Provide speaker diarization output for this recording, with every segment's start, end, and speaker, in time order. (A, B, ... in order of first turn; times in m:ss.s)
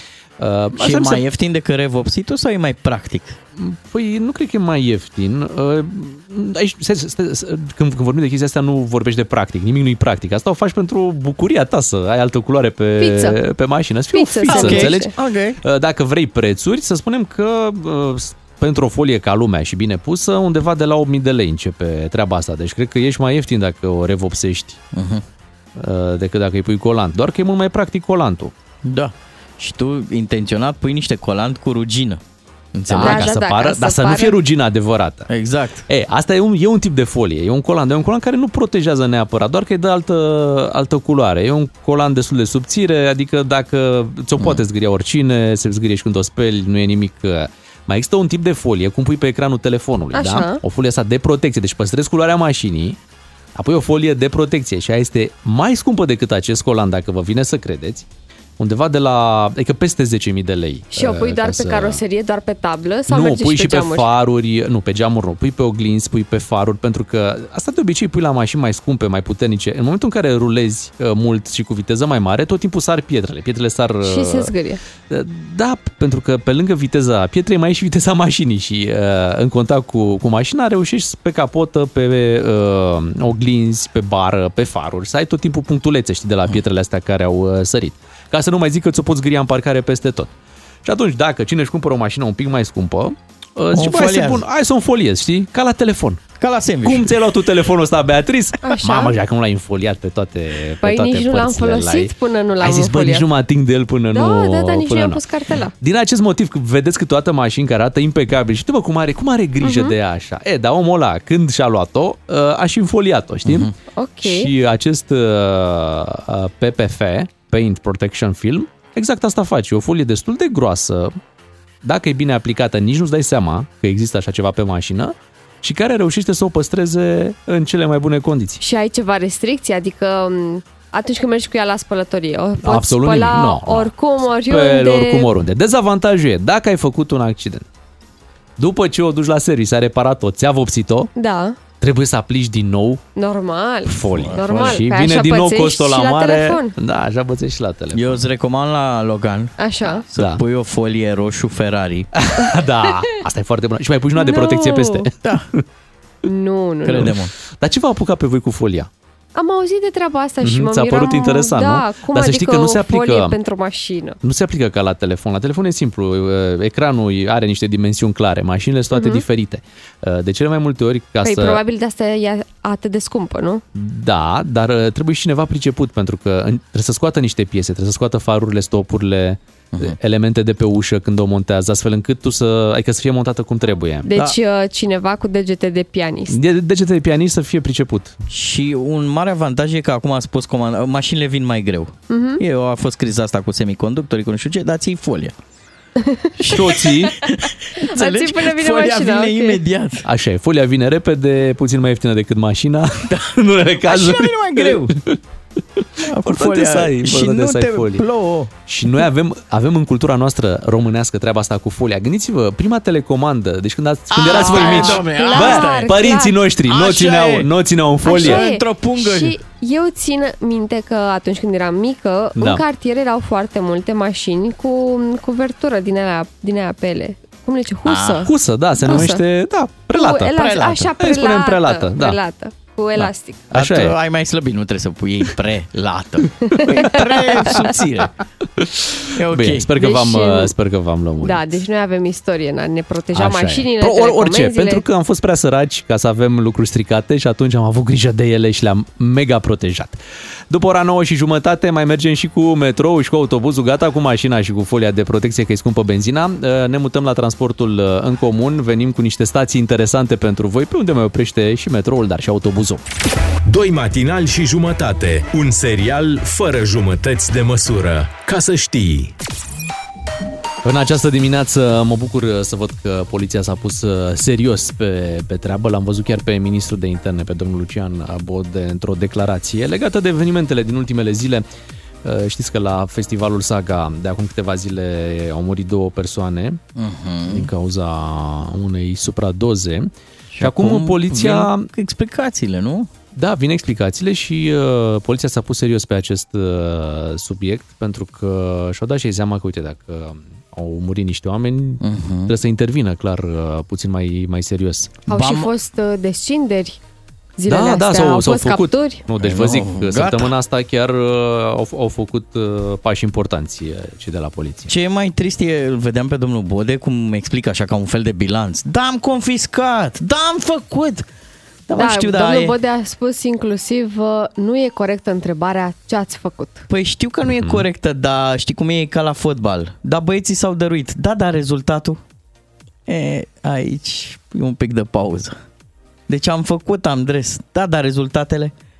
0:00.4-0:01.2 A
0:00.8-0:03.4 B
0:03.6-0:24.8 A
0:13.0-0:13.4 C
0:14.1-0:15.1 C
0:14.5-0:15.6 B
0:24.9-0:25.2 B
0:25.8-0:28.5 A
0:28.8-0:32.2 B
0:32.8-0:33.3 B
0:32.9-0:35.3 A
0:33.0-0:34.4 C
0:35.3-0:35.8 B
0:35.9-0:53.0 A
0:50.1-0:50.6 C
0:53.6-0:58.1 A
0:58.6-1:02.0 A
1:01.0-1:04.1 C
1:03.1-1:14.5 A
1:14.0-1:14.8 C
1:15.1-1:30.3 A
1:30.8-1:36.2 A
1:33.7-1:34.4 B
1:36.4-1:37.1 B
1:36.8-1:45.2 A
1:38.6-1:39.2 C
1:40.8-1:43.3 C
1:44.1-1:45.7 C
1:45.8-1:53.7 A
1:49.6-1:50.0 C
1:53.4-1:53.7 B
1:54.0-1:54.5 C
1:54.2-2:01.2 A
2:01.8-2:08.6 A
2:08.6-2:15.3 C
2:12.6-2:17.6 A
2:18.6-2:21.1 A
2:21.2-2:21.6 C
2:21.8-2:23.0 A
2:23.2-2:26.7 C
2:23.9-2:28.2 A
2:24.2-2:24.8 B
2:27.9-2:32.1 B
2:29.6-2:30.0 C
2:30.2-2:30.4 A
2:32.2-2:35.6 A
2:34.2-2:35.1 C
2:35.2-2:35.5 B
2:36.2-2:37.1 C
2:36.9-2:37.3 B
2:37.0-2:38.9 A
2:39.4-2:44.2 C
2:40.4-2:43.4 A
2:44.2-2:51.6 A
2:48.9-2:49.2 C
2:51.2-2:53.6 C
2:53.7-3:04.1 A
3:04.0-3:06.4 C
3:06.3-3:08.2 A
3:08.3-3:15.4 B
3:12.1-3:12.4 C
3:16.0-3:16.3 C
3:16.4-3:20.0 B
3:16.5-3:17.2 A
3:17.8-3:19.6 C
3:20.0-3:25.2 A
3:23.8-3:25.0 B
3:25.8-3:28.0 A
3:26.0-3:28.5 B
3:28.7-3:38.4 A
3:34.1-3:35.9 B
3:34.3-3:36.4 C
3:36.7-3:37.5 B
3:38.0-3:48.3 C
3:38.1-3:39.4 B
3:42.4-3:42.6 A
3:47.9-3:48.3 B
3:48.2-3:52.2 A
3:48.9-3:49.1 B
3:48.9-3:49.2 C
3:50.0-3:53.5 C
3:53.5-3:54.0 A
3:53.5-3:58.1 B
3:56.5-3:57.6 C
3:58.6-4:01.4 A
3:59.2-3:59.7 B
3:59.8-4:00.5 C
4:01.2-4:04.8 C
4:03.1-4:10.0 A
4:10.5-4:22.8 A
4:23.5-4:29.2 D
4:30.6-4:41.4 A
4:42.0-4:46.6 A
4:46.8-4:47.5 B
4:47.3-4:49.9 A
4:50.3-4:52.9 B
4:50.4-4:51.7 A
4:53.1-5:05.0 A
5:01.8-5:02.3 B
5:05.1-5:05.5 B
5:05.1-5:06.8 C
5:07.4-5:09.0 C
5:07.5-5:14.7 A
5:09.2-5:10.3 B
5:14.7-5:21.1 B
5:21.7-5:22.6 B
5:21.8-5:26.7 C
5:26.7-5:32.0 B
5:27.2-5:27.6 A
5:32.9-5:35.4 B
5:36.1-5:38.5 B